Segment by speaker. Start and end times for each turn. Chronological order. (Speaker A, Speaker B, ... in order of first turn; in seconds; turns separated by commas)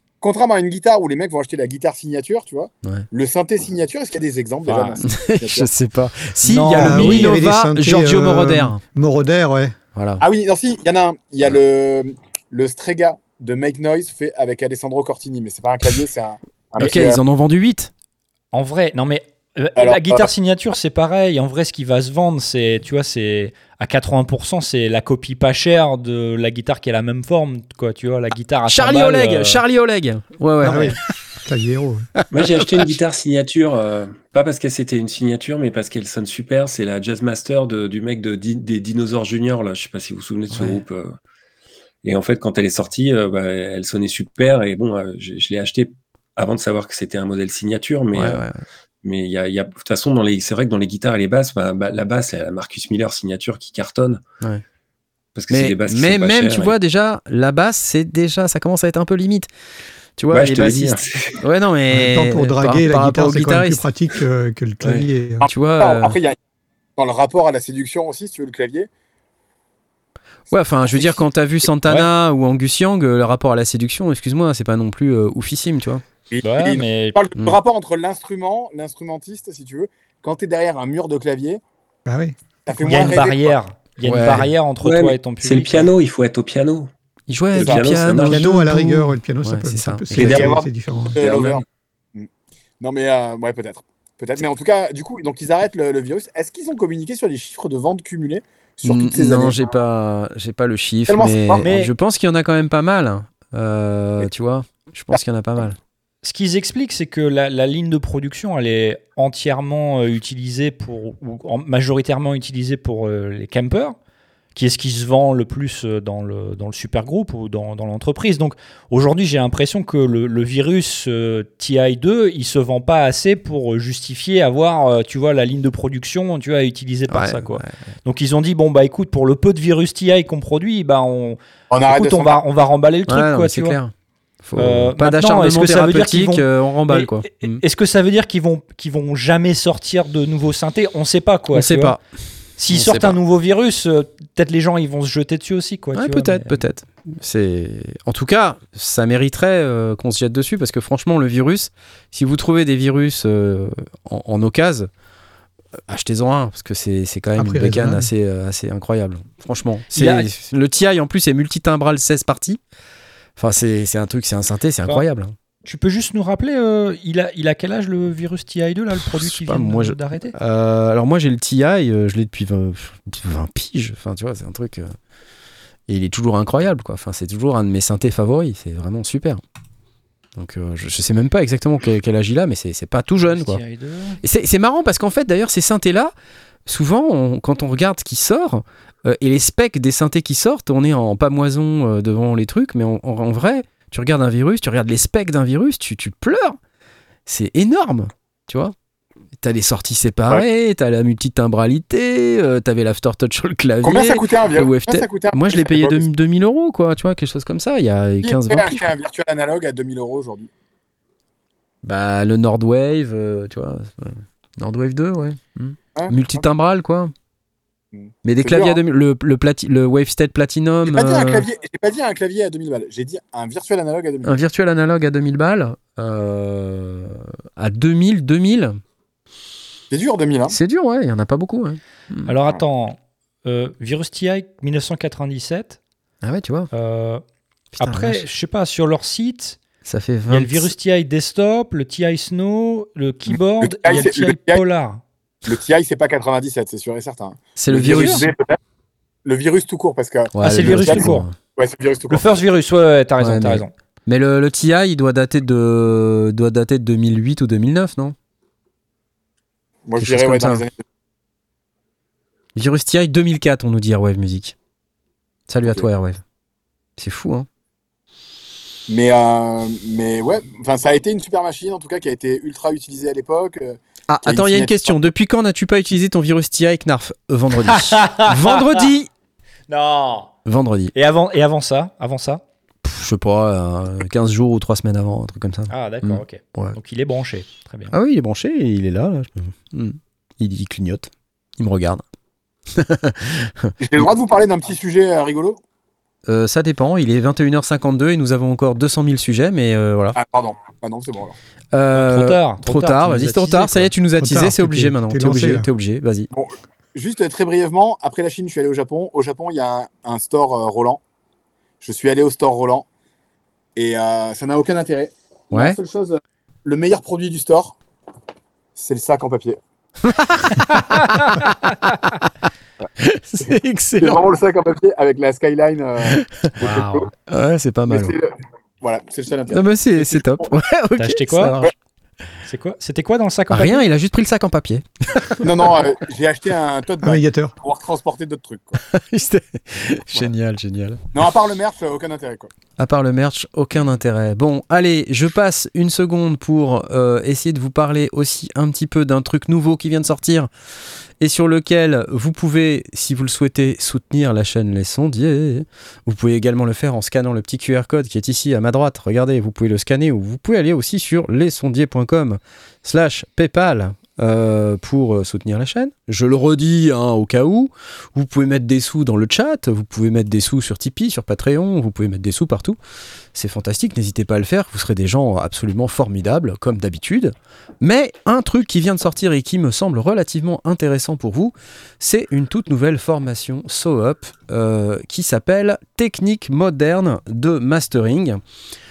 Speaker A: 0.2-5.7, Speaker B: 4.7-5.0, Speaker C: 5.0-8.8, Speaker B: 6.4-7.4, Speaker D: 6.7-9.8, Speaker C: 9.9-10.2, Speaker A: 10.2-17.2, Speaker C: 16.8-17.9, Speaker B: 18.5-29.6, Speaker A: 19.8-20.3, Speaker C: 28.7-31.0, Speaker D: 30.6-32.1, Speaker C: 32.2-32.6, Speaker E: 32.3-41.1, Speaker C: 40.5-40.8, Speaker E: 42.0-48.5, Speaker C: 48.1-48.6, Speaker E: 49.0-54.2, Speaker E: 55.4-56.7, Speaker C: 55.5-59.5, Speaker C: 60.2-63.9, Speaker E: 60.3-61.4, Speaker D: 61.9-65.5, Speaker E: 64.8-65.1, Speaker A: 65.4-66.4, Speaker C: 65.5-66.2, Speaker A: 67.0-68.9, Speaker C: 70.5-76.0, Speaker A: 70.5-71.2, Speaker A: 76.3-81.6, Speaker B: 76.4-77.2, Speaker D: 82.1-83.2, Speaker A: 82.7-83.6, Speaker B: 82.8-85.9, Speaker C: 84.0-84.5, Speaker E: 84.8-86.9, Speaker C: 87.3-90.5, Speaker E: 87.5-88.4, Speaker A: 87.6-88.0, Speaker D: 88.2-91.2, Speaker A: 90.2-91.6, Speaker E: 90.2-90.5, Speaker E: 91.2-91.6, Speaker A: 92.8-99.6, Speaker C: 98.8-105.8, Speaker A: 101.1-101.7, Speaker B: 101.6-101.9, Speaker B: 106.2-114.0, Speaker B: 114.5-133.8, Speaker C: 127.1-127.9, Speaker A: 131.7-132.4, Speaker C: 133.1-137.6, Speaker B: 134.6-142.0, Speaker C: 141.5-142.0, Speaker B: 142.6-146.6, Speaker C: 142.7-143.2, Speaker C: 145.9-154.9, Speaker C: 155.9-162.6, Speaker D: 157.3-158.1, Speaker B: 159.9-160.3, Speaker C: 163.4-165.3, Speaker B: 165.7-170.3, Speaker C: 169.0-174.9, Speaker C: 175.9-179.4, Speaker C: 180.4-183.6, Speaker B: 183.2-184.2, Speaker C: 184.2-186.1, Speaker C: 186.7-196.6, Speaker C: 197.3-198.7, Speaker C: 199.4-208.9, Speaker A: 203.8-206.1, Speaker A: 208.2-210.5, Speaker C: 211.8-217.1, Speaker A: 215.9-216.5, Speaker A: 218.0-218.8, Speaker C: 218.2-221.4, Speaker A: 220.9-224.3, Speaker C: 224.2-228.8, Speaker A: 229.9-230.6, Speaker C: 230.5-232.3, Speaker B: 232.3-235.8, Speaker C: 236.2-236.7, Speaker B: 236.7-237.2, Speaker C: 237.8-238.3, Speaker B: 237.8-239.6, Speaker C: 239.8-240.7, Speaker B: 240.3-245.0, Speaker A: 243.3-244.6, Speaker A: 245.5-248.6, Speaker C: 247.6-248.3, Speaker B: 247.9-248.2, Speaker A: 249.2-252.4, Speaker C: 250.4-251.3, Speaker B: 250.4-251.3, Speaker B: 252.1-253.7, Speaker C: 253.2-258.2, Speaker A: 259.9-260.8, Speaker C: 260.0-260.6, Speaker C: 262.6-264.6, Speaker C: 265.5-266.2, Speaker C: 267.0-267.5, Speaker A: 268.9-275.1, Speaker C: 274.1-279.1, Speaker B: 277.7-278.9, Speaker B: 279.7-280.3, Speaker C: 280.5-280.9, Speaker B: 280.9-282.4, Speaker C: 282.8-286.8, Speaker B: 285.7-287.9, Speaker C: 287.9-292.0, Speaker C: 292.7-293.7, Speaker A: 293.8-295.6, Speaker C: 296.3-300.2, Speaker A: 300.1-301.4, Speaker C: 301.7-306.3, Speaker B: 301.9-303.9, Speaker D: 304.2-305.7, Speaker A: 306.3-311.0, Speaker A: 311.8-312.9, Speaker A: 313.8-317.8, Speaker C: 315.5-315.8, Speaker A: 318.8-319.6, Speaker C: 320.1-322.2, Speaker C: 323.0-324.2, Speaker A: 323.4-327.1, Speaker C: 326.1-328.1, Speaker A: 327.9-330.5, Speaker C: 329.5-331.7, Speaker B: 331.0-331.7, Speaker B: 332.4-333.9, Speaker C: 333.5-335.5, Speaker A: 335.4-338.8, Speaker D: 337.0-337.5, Speaker C: 338.9-341.0, Speaker A: 341.1-342.5, Speaker C: 342.8-350.5, Speaker C: 351.2-372.8, Speaker C: 373.4-388.4